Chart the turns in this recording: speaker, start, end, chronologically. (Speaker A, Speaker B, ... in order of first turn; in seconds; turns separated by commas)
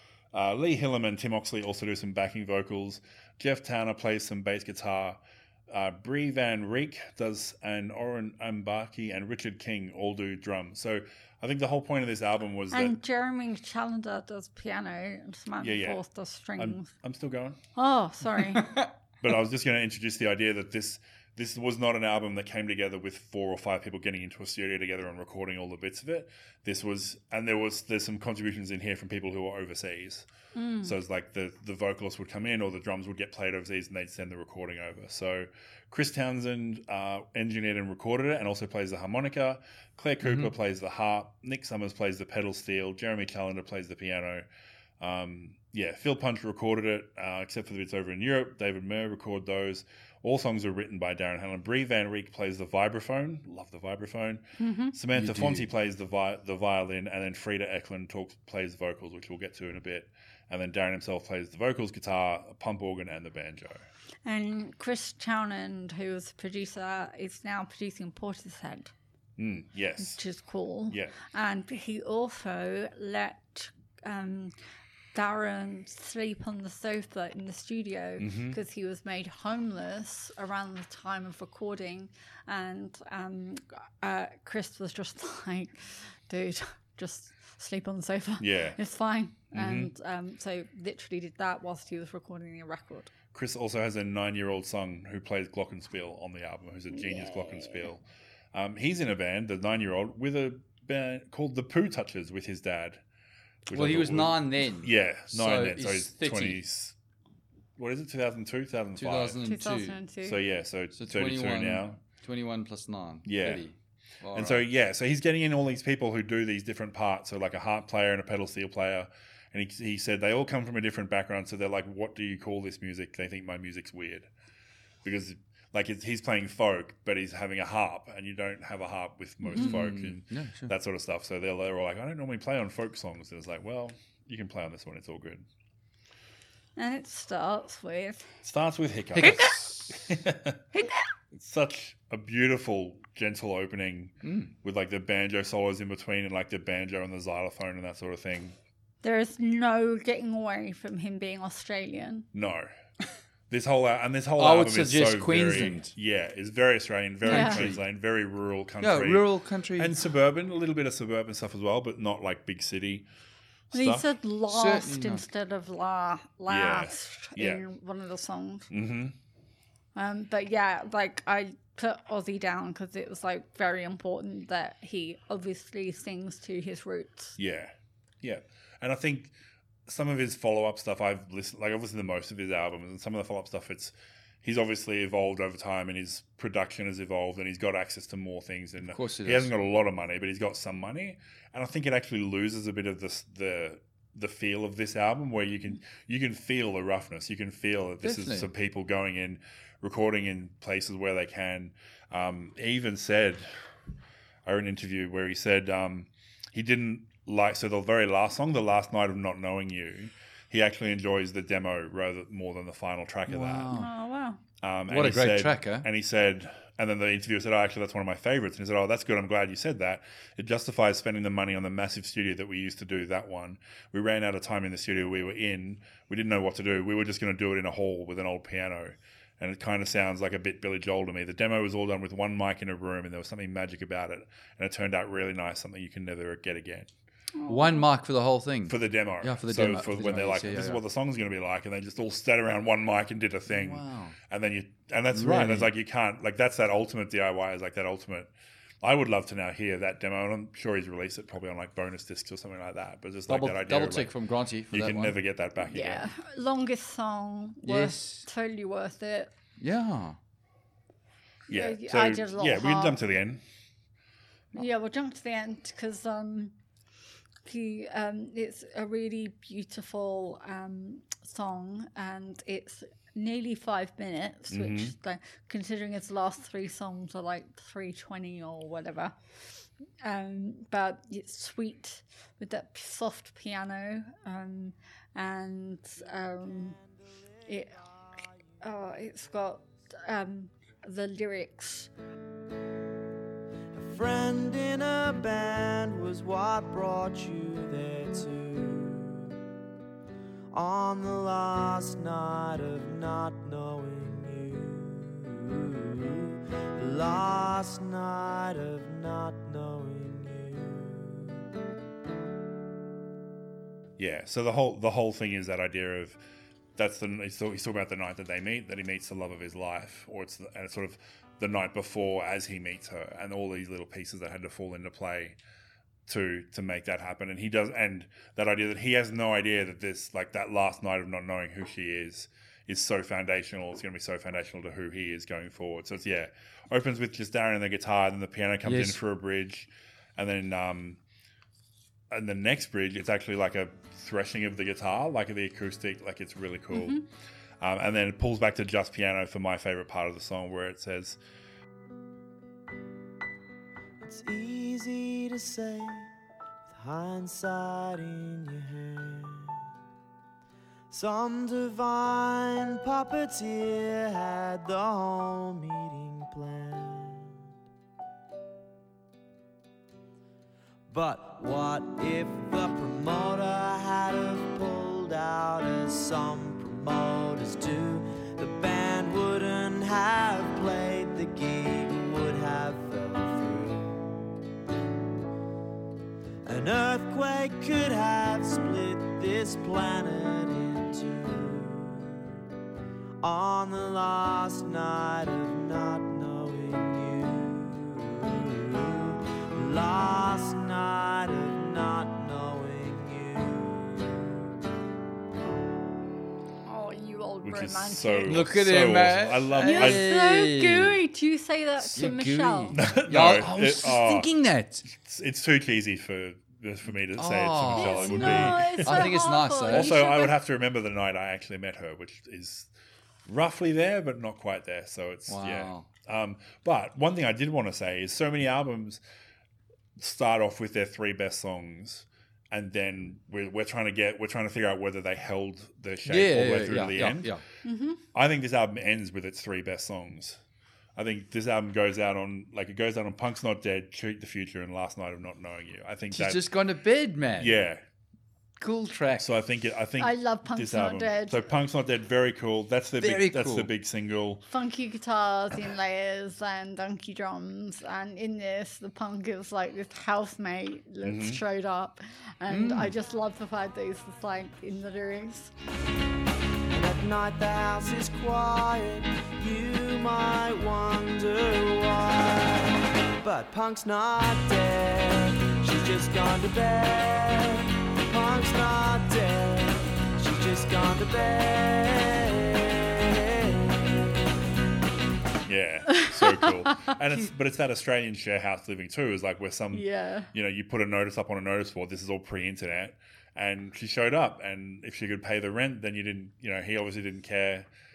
Speaker A: 0.3-12.9, Speaker B: 12.7-16.9, Speaker A: 15.6-16.0, Speaker A: 16.6-17.6, Speaker B: 17.8-18.7, Speaker C: 18.5-18.9, Speaker A: 19.2-30.2, Speaker B: 30.5-30.9, Speaker A: 30.8-44.5, Speaker C: 40.2-40.5, Speaker A: 45.0-63.9, Speaker B: 54.6-54.9, Speaker C: 55.1-55.7, Speaker B: 64.2-68.9, Speaker A: 69.4-70.2, Speaker B: 70.0-74.5, Speaker B: 75.1-93.1, Speaker A: 78.2-78.6, Speaker A: 88.4-88.8, Speaker A: 89.5-89.9, Speaker A: 93.3-98.0, Speaker B: 97.1-97.7, Speaker A: 98.5-103.0, Speaker A: 103.7-107.0, Speaker C: 103.7-106.6, Speaker A: 107.8-109.4, Speaker C: 109.0-110.0, Speaker B: 109.4-110.4, Speaker A: 110.2-112.0, Speaker C: 111.0-114.7, Speaker A: 113.2-113.6, Speaker A: 114.3-124.3, Speaker A: 125.0-135.4, Speaker C: 129.5-130.7, Speaker B: 136.8-138.3, Speaker A: 138.4-140.6, Speaker C: 139.1-140.0, Speaker A: 141.3-148.6, Speaker C: 144.2-144.5, Speaker B: 149.0-152.3, Speaker A: 152.3-152.7, Speaker A: 153.5-163.1, Speaker C: 154.4-155.9, Speaker C: 157.2-157.8, Speaker B: 157.2-157.7, Speaker C: 158.8-160.0, Speaker A: 163.7-164.1, Speaker B: 163.7-168.7, Speaker C: 164.5-165.2, Speaker A: 166.5-167.6, Speaker A: 168.7-169.1, Speaker B: 169.9-177.3, Speaker A: 177.4-179.3, Speaker A: 179.9-203.5, Speaker C: 188.9-189.5, Speaker C: 198.0-198.5, Speaker A: 204.4-213.8, Speaker C: 213.3-213.9, Speaker B: 213.7-214.4, Speaker A: 214.6-236.9, Speaker C: 214.9-215.9, Speaker B: 237.3-237.8, Speaker C: 237.4-240.8, Speaker A: 238.7-248.3, Speaker C: 243.5-244.2, Speaker C: 245.1-245.7, Speaker A: 248.8-254.1, Speaker C: 253.3-255.2, Speaker A: 254.7-256.1, Speaker B: 255.6-259.3, Speaker C: 257.6-258.2, Speaker C: 259.6-260.2, Speaker A: 261.5-263.4, Speaker B: 261.5-263.1, Speaker B: 264.5-266.5, Speaker B: 267.4-279.1, Speaker A: 274.5-274.9, Speaker B: 280.0-286.8, Speaker B: 287.5-287.8, Speaker B: 288.6-291.9, Speaker D: 293.7-299.4, Speaker D: 300.5-311.4, Speaker A: 314.0-316.2, Speaker A: 316.8-325.4, Speaker A: 326.1-341.0, Speaker C: 338.6-339.0, Speaker A: 342.1-347.0, Speaker B: 346.7-347.0, Speaker A: 347.6-351.2, Speaker D: 354.0-356.1, Speaker D: 356.7-359.6, Speaker D: 360.9-367.4, Speaker D: 370.9-384.1, Speaker D: 386.4-392.3, Speaker D: 393.2-404.5, Speaker B: 406.6-408.4, Speaker A: 407.4-410.0, Speaker C: 408.3-411.0, Speaker B: 409.6-412.8, Speaker C: 411.9-414.9, Speaker A: 412.7-414.3, Speaker A: 414.9-419.1, Speaker C: 417.1-419.9, Speaker B: 417.7-420.4, Speaker A: 419.7-422.7, Speaker A: 423.2-429.0, Speaker C: 425.3-425.9, Speaker A: 430.0-437.3, Speaker C: 436.0-437.4, Speaker B: 437.6-438.0, Speaker A: 438.1-440.4, Speaker A: 440.9-446.4, Speaker C: 446.1-447.6, Speaker A: 447.4-447.8, Speaker C: 448.6-449.3, Speaker A: 449.2-454.4, Speaker B: 450.0-451.4, Speaker C: 453.0-453.7, Speaker B: 454.5-465.5, Speaker A: 461.0-461.4, Speaker C: 462.5-462.9, Speaker D: 466.7-484.1, Speaker A: 485.5-497.7, Speaker B: 486.2-486.7, Speaker B: 489.7-490.3